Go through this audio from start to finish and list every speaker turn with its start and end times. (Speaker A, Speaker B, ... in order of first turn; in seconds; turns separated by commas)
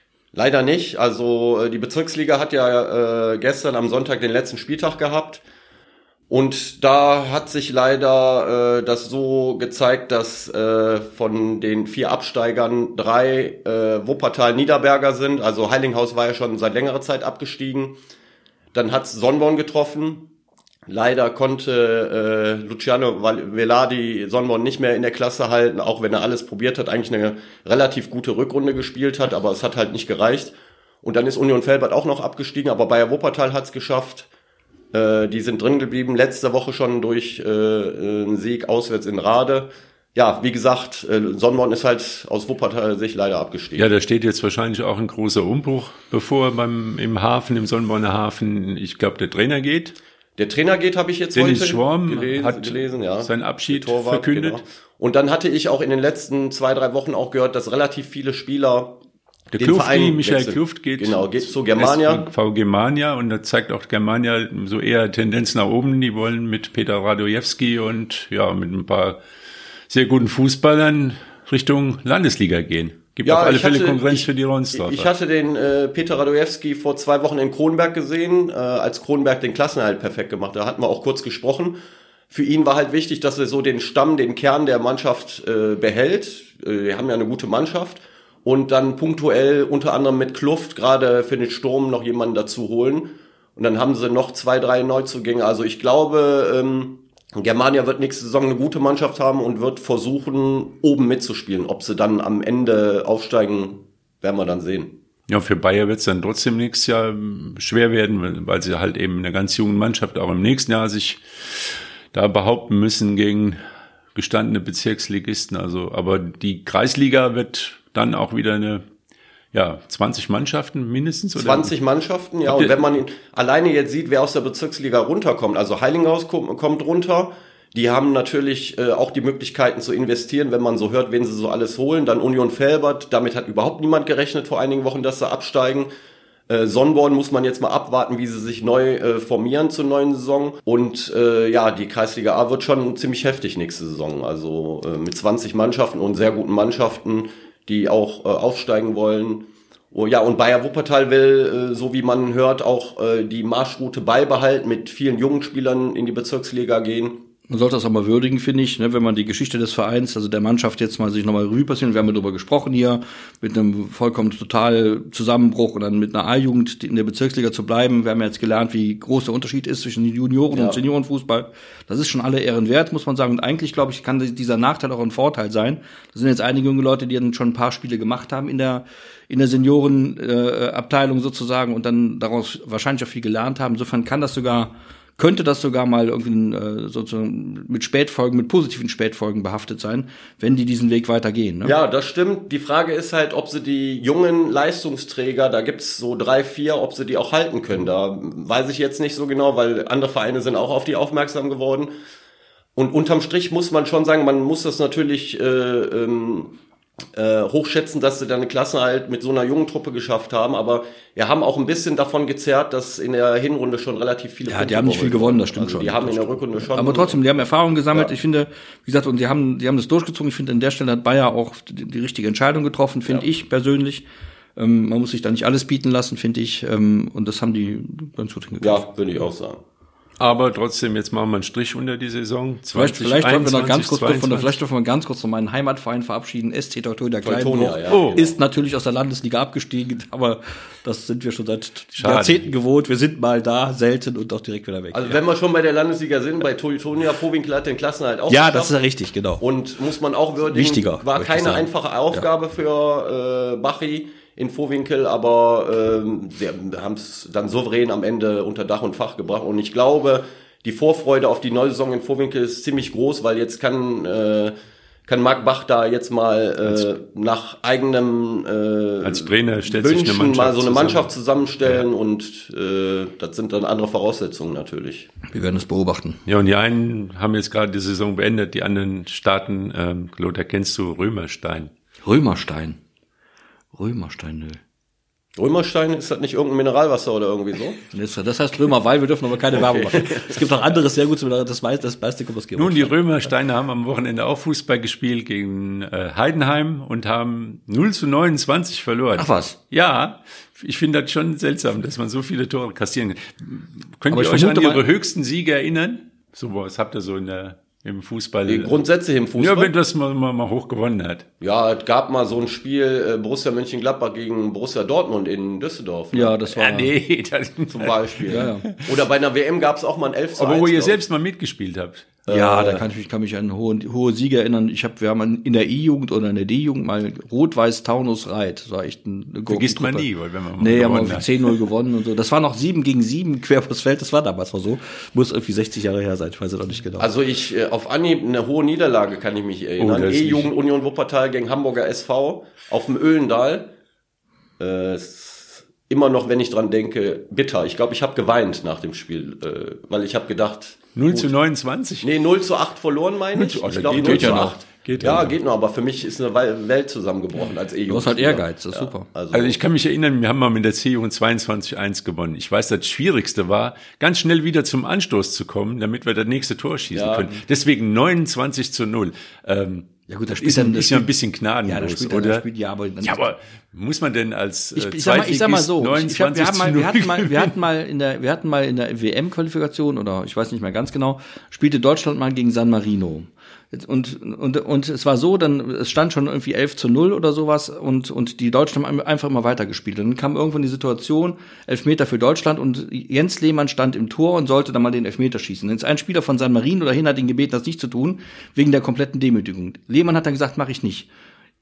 Speaker A: 0.3-5.4, Speaker A: 6.3-17.9, Speaker A: 18.7-20.2, Speaker A: 20.9-34.3, Speaker A: 34.9-43.9, Speaker B: 43.8-50.0, Speaker A: 50.4-59.0, Speaker B: 51.3-54.6, Speaker B: 59.5-69.2, Speaker A: 59.6-62.3, Speaker B: 69.9-75.1, Speaker A: 73.2-81.8, Speaker A: 82.3-104.9, Speaker B: 105.3-113.6, Speaker B: 114.1-118.8, Speaker B: 119.5-121.7, Speaker A: 121.3-135.9, Speaker B: 122.5-122.8, Speaker A: 136.5-157.2, Speaker C: 157.5-191.7, Speaker A: 170.5-170.8, Speaker A: 191.6-201.9, Speaker A: 202.8-206.5, Speaker A: 207.1-217.2, Speaker C: 214.5-228.8, Speaker A: 228.6-229.6, Speaker B: 230.2-234.6, Speaker C: 232.7-245.2, Speaker A: 237.2-238.3, Speaker B: 237.9-238.2, Speaker B: 242.0-242.4, Speaker A: 244.9-248.7, Speaker C: 248.3-249.4, Speaker A: 249.4-264.5, Speaker C: 250.5-252.3, Speaker A: 265.1-275.1, Speaker B: 269.0-271.1, Speaker C: 275.3-276.2, Speaker B: 276.2-281.7, Speaker C: 282.0-282.8, Speaker C: 283.7-284.6, Speaker A: 285.4-287.8, Speaker C: 287.9-292.9, Speaker A: 289.5-290.4, Speaker B: 292.6-308.8, Speaker C: 299.1-299.6, Speaker C: 304.1-304.8, Speaker A: 308.5-309.7, Speaker B: 309.4-311.2, Speaker A: 311.4-316.4, Speaker C: 316.1-316.9, Speaker B: 316.5-318.9, Speaker A: 317.7-321.0, Speaker C: 318.3-318.7, Speaker B: 320.4-322.2, Speaker A: 322.2-322.8, Speaker C: 322.3-330.1, Speaker B: 329.5-331.6, Speaker C: 330.6-337.1, Speaker A: 337.0-343.7, Speaker B: 339.8-340.5, Speaker A: 344.6-351.3, Speaker B: 350.9-352.1, Speaker A: 352.0-359.6, Speaker B: 353.3-355.3, Speaker C: 353.9-354.6, Speaker C: 357.9-359.1, Speaker B: 359.3-372.4, Speaker A: 366.9-367.3, Speaker C: 370.1-371.1, Speaker C: 371.6-373.2, Speaker B: 373.0-377.5, Speaker C: 374.8-401.1